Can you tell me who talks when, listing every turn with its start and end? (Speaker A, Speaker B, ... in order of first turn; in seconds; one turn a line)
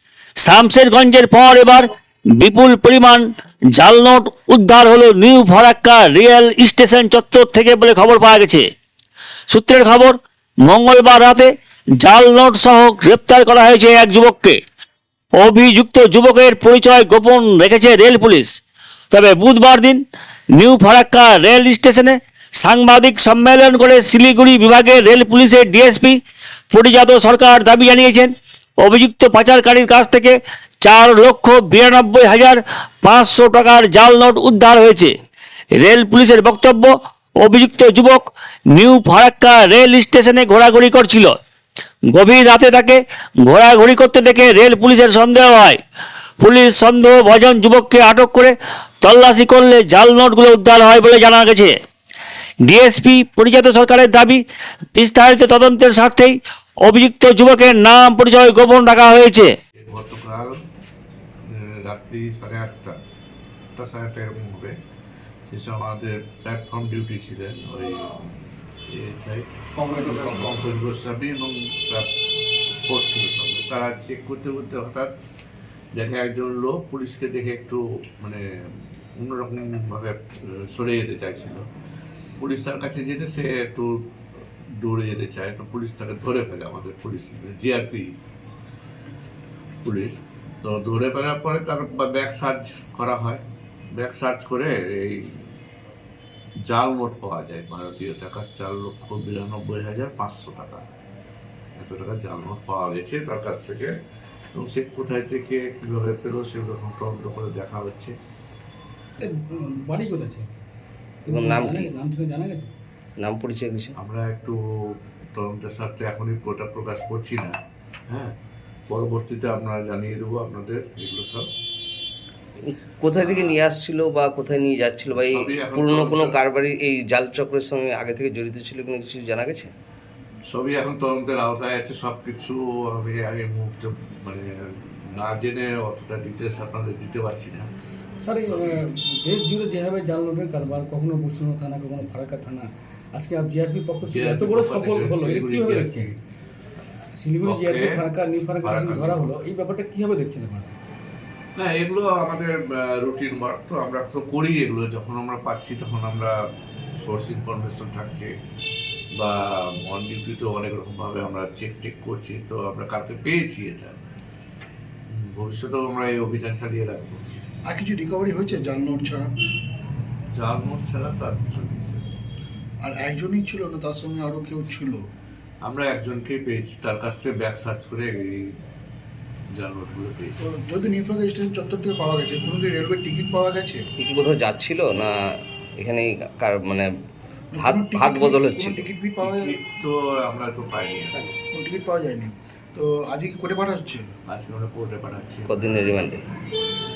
Speaker A: 0.4-1.9
Speaker A: 2.4-8.6
Speaker A: 9.5-11.5
Speaker A: 12.0-14.6
Speaker A: 15.4-18.6
Speaker A: 19.1-20.0
Speaker A: 20.5-26.2
Speaker A: 26.7-35.1
Speaker A: 35.8-41.3
Speaker A: 42.1-45.8
Speaker A: 46.4-51.7
Speaker A: 52.6-54.4
Speaker A: 54.9-59.5
Speaker B: 59.8-60.6
Speaker B: 61.5-62.9
Speaker B: 63.8-64.7
Speaker B: 65.5-68.2
Speaker B: 68.9-72.1
Speaker B: 72.9-75.1
Speaker B: 75.9-78.4
Speaker B: 79.2-81.6
Speaker B: 82.4-84.0
Speaker B: 84.8-88.1
Speaker B: 89.8-93.4
Speaker B: 93.9-95.5
Speaker B: 96.7-100.8
Speaker B: 101.8-103.9
Speaker B: 104.5-108.1
Speaker C: 109.2-110.5
Speaker C: 111.2-112.7
Speaker D: 111.3-111.9
Speaker D: 113.2-113.9
Speaker B: 114.0-114.6
Speaker B: 115.3-117.5
Speaker B: 118.1-118.3
Speaker B: 118.9-121.5
Speaker D: 122.7-129.7
Speaker B: 123.1-123.6
Speaker B: 125.1-126.3
Speaker B: 130.5-137.7
Speaker C: 138.2-142.6
Speaker B: 138.5-138.8
Speaker C: 143.2-146.1
Speaker B: 144.0-146.1
Speaker C: 147.2-150.7
Speaker B: 147.4-147.9
Speaker B: 148.6-149.3
Speaker B: 151.6-156.3
Speaker B: 157.0-158.3
Speaker B: 159.2-164.0
Speaker B: 165.1-167.2
Speaker E: 167.7-169.3
Speaker B: 170.3-172.0
Speaker E: 172.8-175.0
Speaker B: 175.6-178.4
Speaker B: 179.5-180.4
Speaker E: 180.4-183.8
Speaker D: 184.0-185.1
Speaker D: 185.8-186.9
Speaker E: 187.5-189.5
Speaker D: 187.6-188.9
Speaker B: 189.2-191.2
Speaker E: 191.5-194.0
Speaker B: 194.3-196.1
Speaker D: 195.5-196.2